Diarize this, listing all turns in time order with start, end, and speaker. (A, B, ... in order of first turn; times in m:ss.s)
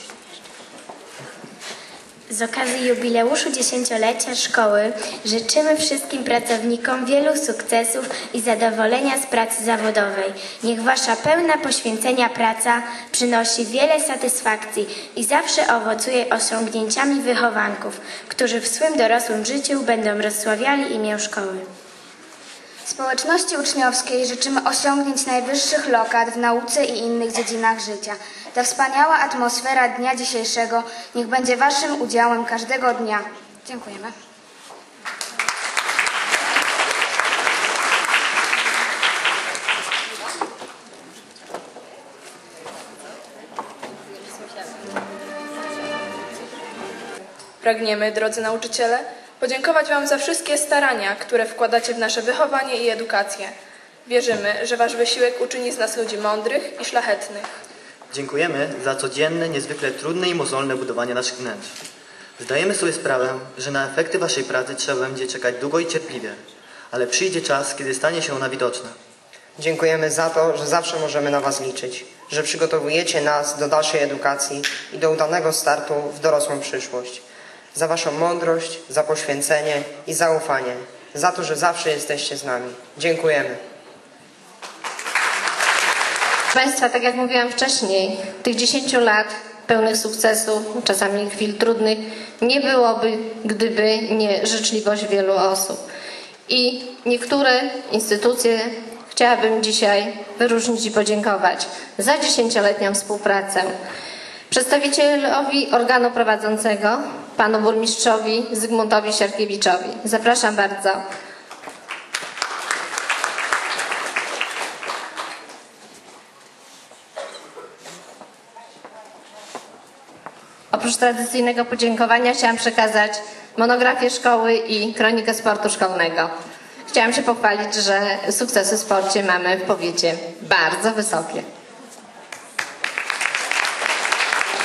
0:02.3-0:21.6 A
0:22.9-0:26.7 B
0:27.4-0:31.8 B
0:32.3-0:33.0 B
0:47.6-0:53.5 C
0:54.0-0:57.4 C
0:58.1-1:01.7 D
1:02.4-1:06.4 D
1:06.9-1:08.9 D
1:09.6-1:17.2 E
1:17.7-1:23.6 E
1:26.5-1:35.8 F
1:36.5-1:43.7 F
1:44.5-1:51.0 F
2:00.7-2:06.3 F
2:06.9-2:11.4 F